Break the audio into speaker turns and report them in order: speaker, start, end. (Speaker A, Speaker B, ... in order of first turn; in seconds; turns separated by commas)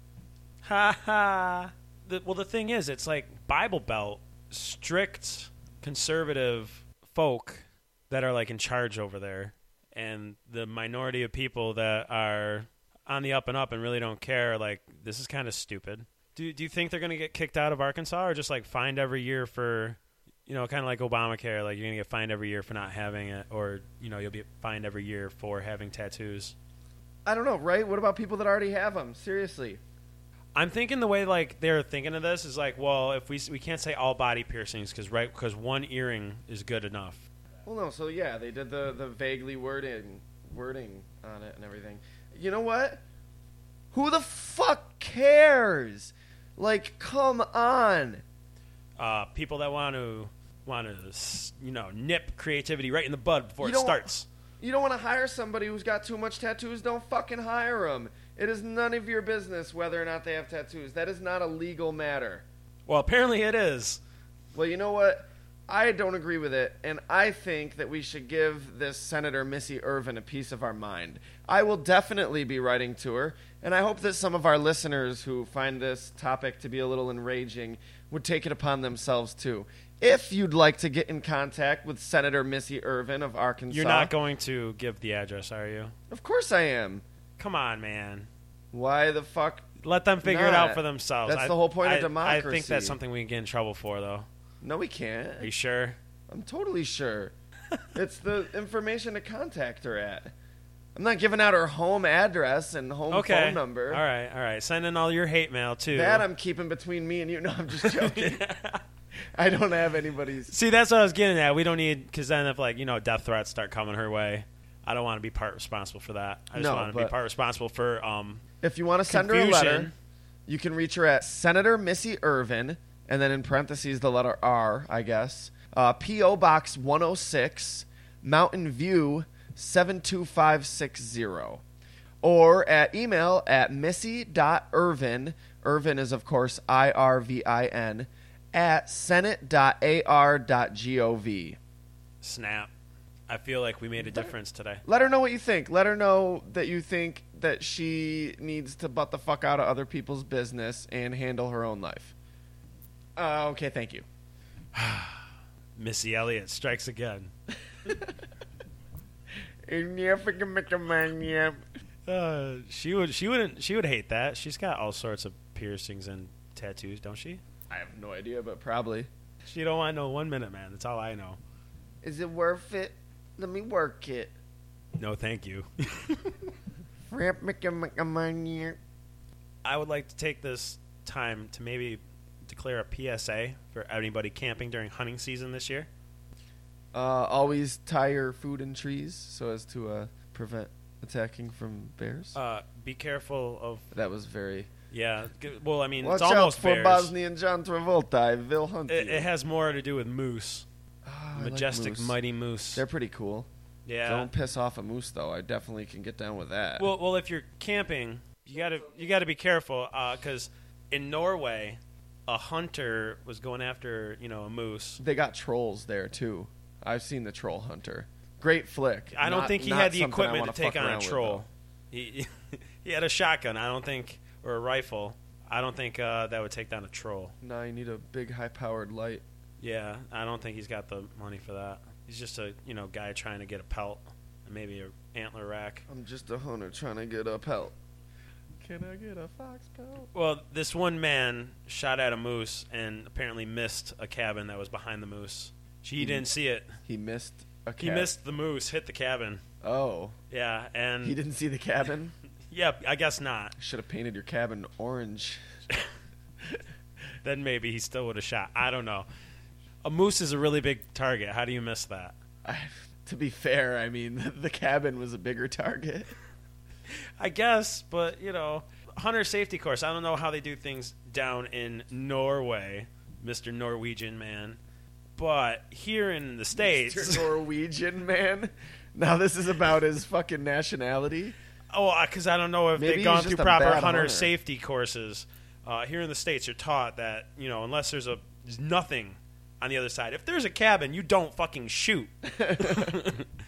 Speaker A: 0.6-26.5, Speaker B: 27.2-29.8, Speaker A: 30.5-37.2, Speaker B: 37.6-43.0, Speaker B: 43.9-48.2, Speaker A: 49.0-54.3, Speaker B: 53.6-54.1, Speaker B: 54.6-62.4, Speaker A: 62.9-64.0, Speaker B: 64.5-84.1, Speaker A: 83.7-85.9, Speaker B: 86.1-87.0, Speaker A: 87.4-88.3, Speaker B: 88.7-89.7, Speaker A: 89.8-94.3, Speaker B: 90.2-93.0, Speaker B: 94.6-95.5, Speaker A: 95.4-96.0, Speaker B: 96.3-97.3, Speaker B: 97.9-100.3, Speaker B: 100.9-104.0, Speaker A: 103.1-106.2, Speaker B: 105.9-108.4, Speaker A: 107.8-108.8, Speaker B: 109.3-110.5, Speaker A: 110.5-118.4, Speaker B: 116.5-117.1, Speaker B: 118.6-119.9, Speaker A: 119.1-119.9, Speaker B: 120.5-131.6, Speaker B: 132.2-141.6, Speaker A: 142.2-142.7, Speaker A: 143.3-144.8, Speaker B: 144.0-144.3, Speaker B: 144.8-152.1, Speaker B: 153.2-154.1, Speaker A: 154.7-157.3, Speaker B: 157.8-158.2, Speaker B: 159.7-161.6, Speaker A: 162.1-167.4, Speaker B: 167.7-169.1, Speaker A: 169.5-171.4, Speaker B: 172.0-174.3, Speaker A: 175.0-176.4, Speaker B: 177.1-178.8, Speaker A: 179.6-185.9, Speaker B: 186.9-192.4, Speaker A: 192.3-193.9, Speaker B: 193.9-194.7, Speaker A: 194.9-197.1, Speaker B: 196.0-199.3, Speaker A: 198.9-200.7, Speaker B: 201.0-202.2, Speaker A: 201.3-202.8, Speaker B: 202.8-203.5, Speaker A: 203.9-204.3, Speaker B: 204.0-206.9, Speaker A: 206.8-215.0, Speaker B: 215.0-221.4, Speaker A: 219.1-227.3, Speaker B: 227.4-229.2, Speaker A: 229.6-235.9, Speaker B: 235.9-237.7, Speaker B: 238.6-240.1, Speaker A: 240.1-246.8, Speaker B: 246.0-246.3, Speaker B: 246.8-248.1, Speaker A: 247.8-249.4, Speaker B: 249.6-250.2, Speaker A: 250.3-251.2, Speaker B: 251.0-252.1, Speaker A: 252.5-253.6, Speaker B: 253.6-255.4, Speaker A: 257.2-259.1, Speaker A: 259.9-262.1, Speaker B: 262.4-266.1, Speaker A: 267.2-274.6, Speaker A: 275.2-277.3, Speaker B: 276.5-281.4, Speaker A: 281.7-293.3, Speaker B: 282.8-284.3, Speaker B: 292.2-293.0